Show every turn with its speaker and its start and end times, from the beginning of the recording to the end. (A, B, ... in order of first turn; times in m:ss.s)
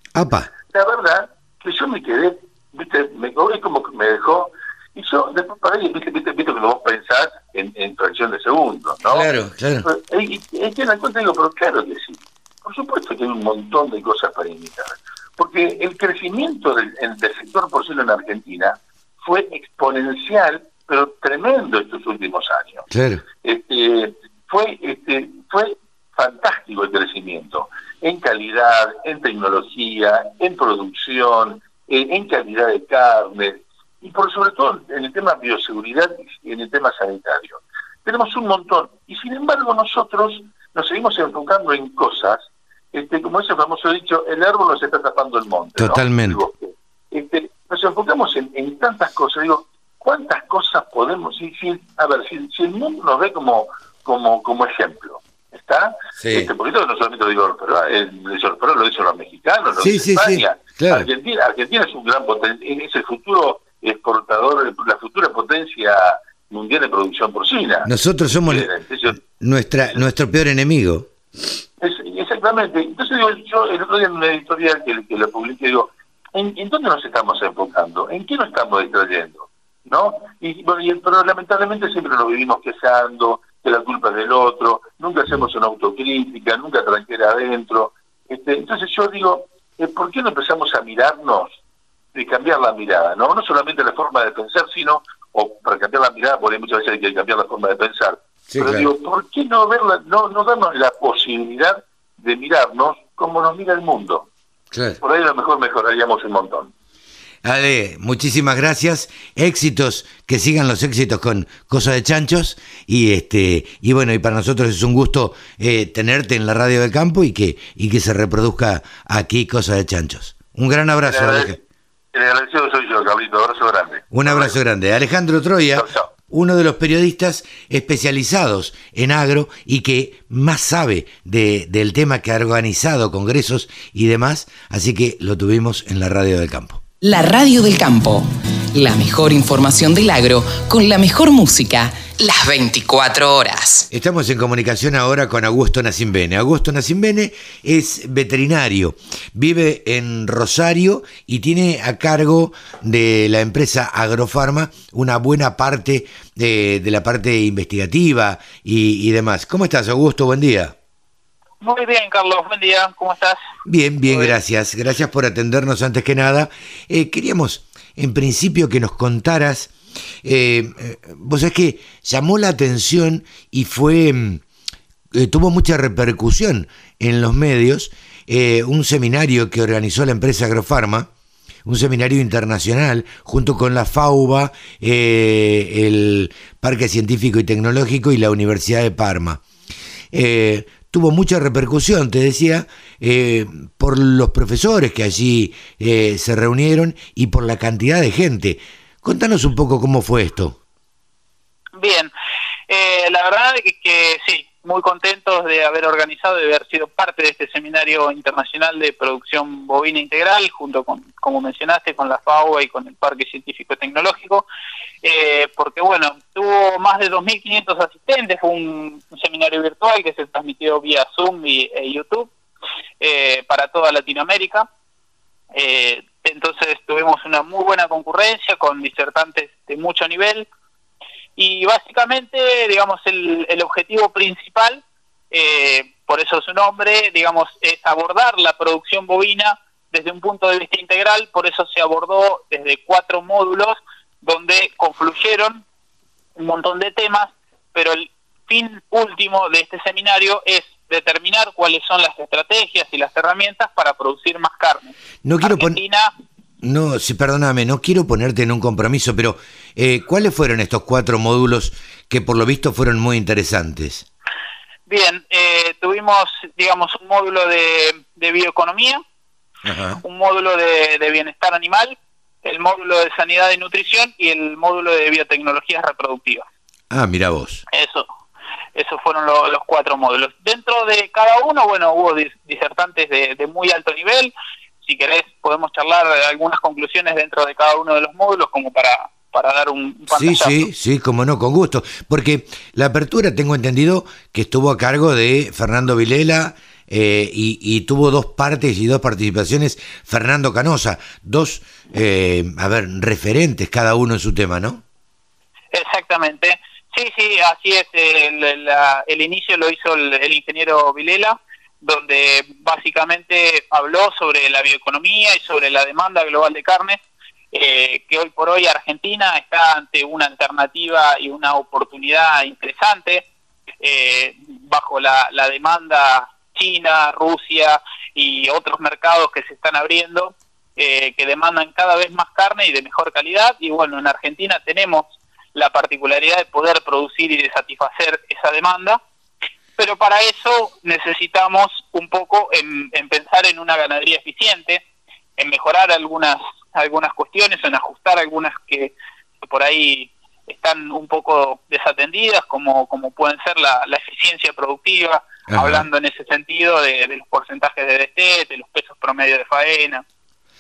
0:00.2-0:00.5 A
0:00.7-0:09.3 B
0:09.1-0:09.9 A
0:09.8-0:22.9 B
0:22.9-0:23.2 A
0:23.4-1:07.9 B
0:45.8-0:46.4 A
0:56.2-0:56.5 A
0:59.8-1:01.1 A
1:07.8-1:08.7 A
1:08.4-1:09.2 B
1:09.2-1:11.1 A
1:11.8-1:31.6 B
1:32.1-1:44.3 B
1:38.5-1:38.9 A
1:44.7-1:45.0 A
1:45.0-1:46.7 B
1:47.4-2:01.6 A
2:01.1-2:01.6 B
2:02.1-2:04.6 B
2:04.1-2:16.8 A
2:05.8-2:06.1 B
2:17.0-2:23.9 C
2:23.9-2:40.7 A
2:41.6-2:43.4 D
2:43.7-2:54.4 A
2:55.1-3:01.1 A
3:01.7-3:09.4 A
3:10.1-3:20.6 A
3:21.8-3:22.1 D
3:22.7-3:34.4 D
3:35.0-3:42.3 D
3:43.0-3:44.7 D
3:45.5-3:50.5 D
3:51.4-4:05.6 D
4:06.4-4:16.1 D
4:15.2-4:15.8 A
4:16.6-4:24.1 A
4:24.9-4:29.0 D
4:29.6-4:30.0 A
4:30.0-4:36.4 D
4:36.9-4:37.6 A
4:37.7-4:38.1 D
4:38.8-4:44.3 D
4:44.8-4:50.7 D
4:50.1-5:04.8 A
5:05.7-5:17.0 D
5:17.5-5:23.3 D
5:23.8-5:39.0 D
5:39.8-5:44.8 D
5:45.4-6:00.0 D
5:55.5-5:55.9 A